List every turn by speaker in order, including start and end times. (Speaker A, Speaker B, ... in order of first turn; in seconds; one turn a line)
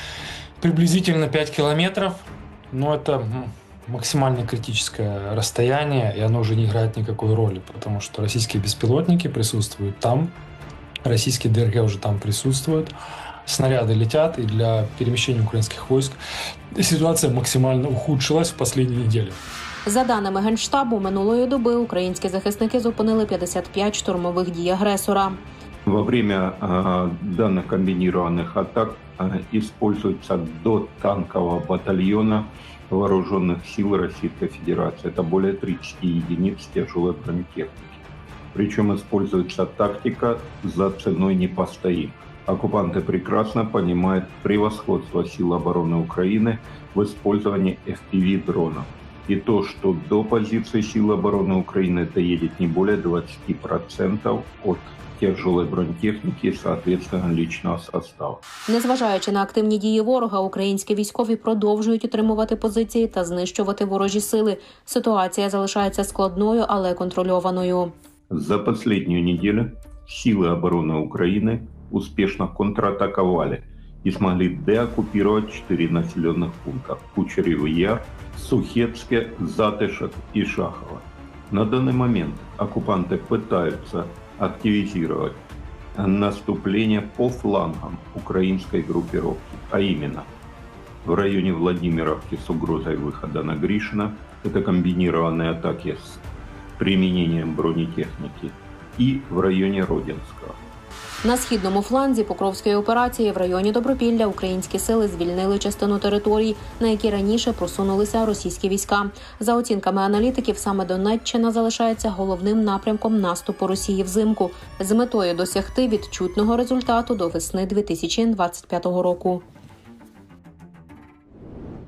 Speaker A: 0.6-10.3
Speaker A: 11.0-12.9
Speaker A: 13.4-16.2
Speaker A: 16.7-19.4
Speaker B: 19.9-25.4
Speaker C: 25.9-38.0
Speaker C: 38.5-58.4
Speaker B: 58.7-67.9
Speaker C: 68.3-85.4
Speaker C: 86.0-90.3
Speaker C: 91.0-96.2
Speaker C: 96.8-100.6
Speaker B: 101.2-119.4